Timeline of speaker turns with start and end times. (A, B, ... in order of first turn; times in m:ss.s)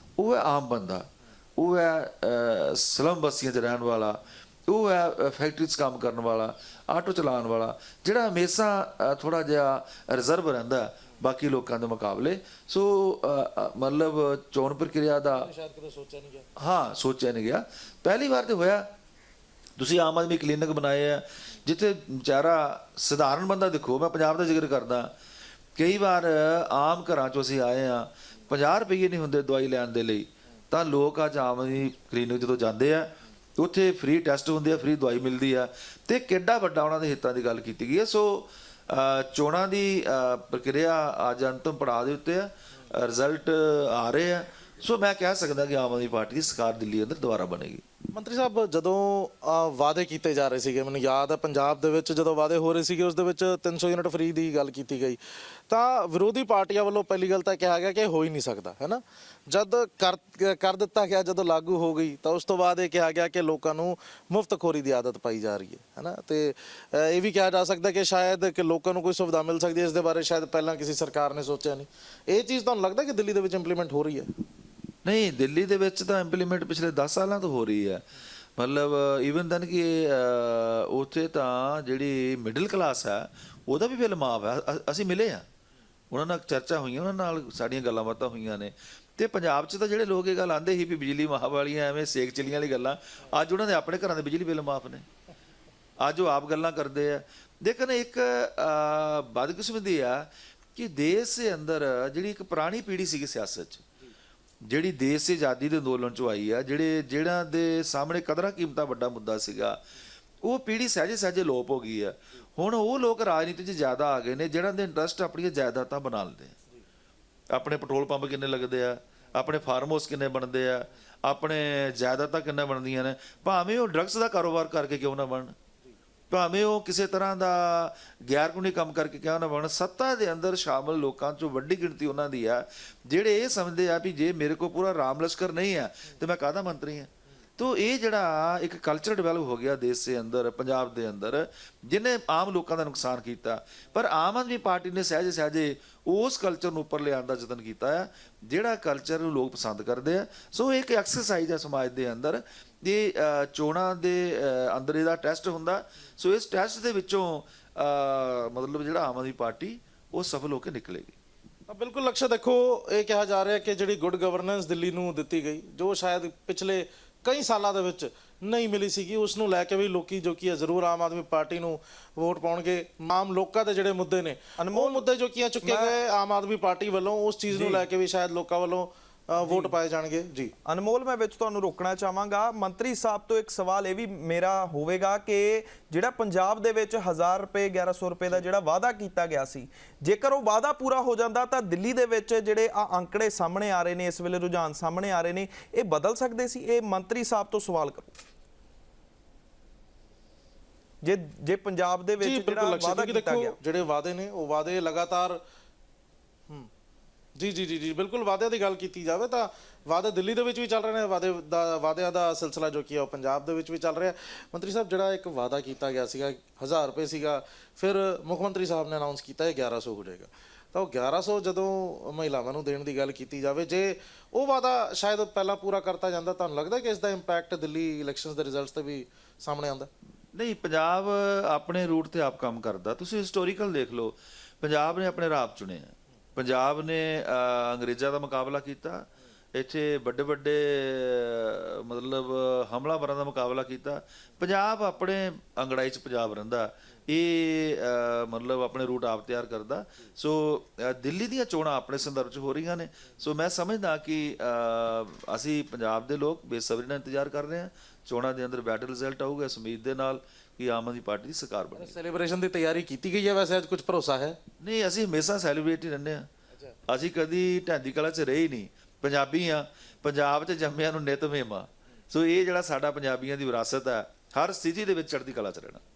0:00.2-0:15.5 A
0:15.2-0:16.5 B
0:16.6-0:18.8 A
0:19.8-0:25.1 A
0:25.8-0:47.8 A
0:48.1-1:14.3 B
1:15.0-1:18.0 A
1:18.6-1:25.4 A
1:26.1-1:35.0 A
1:36.0-1:43.8 A
1:44.7-1:49.8 A
1:50.4-1:56.6 A
1:57.5-2:05.5 A
2:06.3-2:41.2 A
2:41.7-3:00.5 B
2:54.6-2:55.0 C
2:55.6-2:55.9 C
2:57.5-2:57.8 C
2:59.4-2:59.7 C
3:00.6-3:18.1 C
3:21.0-3:23.6 C
3:22.2-3:25.4 B
3:27.4-3:49.9 B
3:50.3-4:22.0 A
4:21.7-4:24.4 B
4:24.6-4:26.3 A
4:26.9-4:35.8 A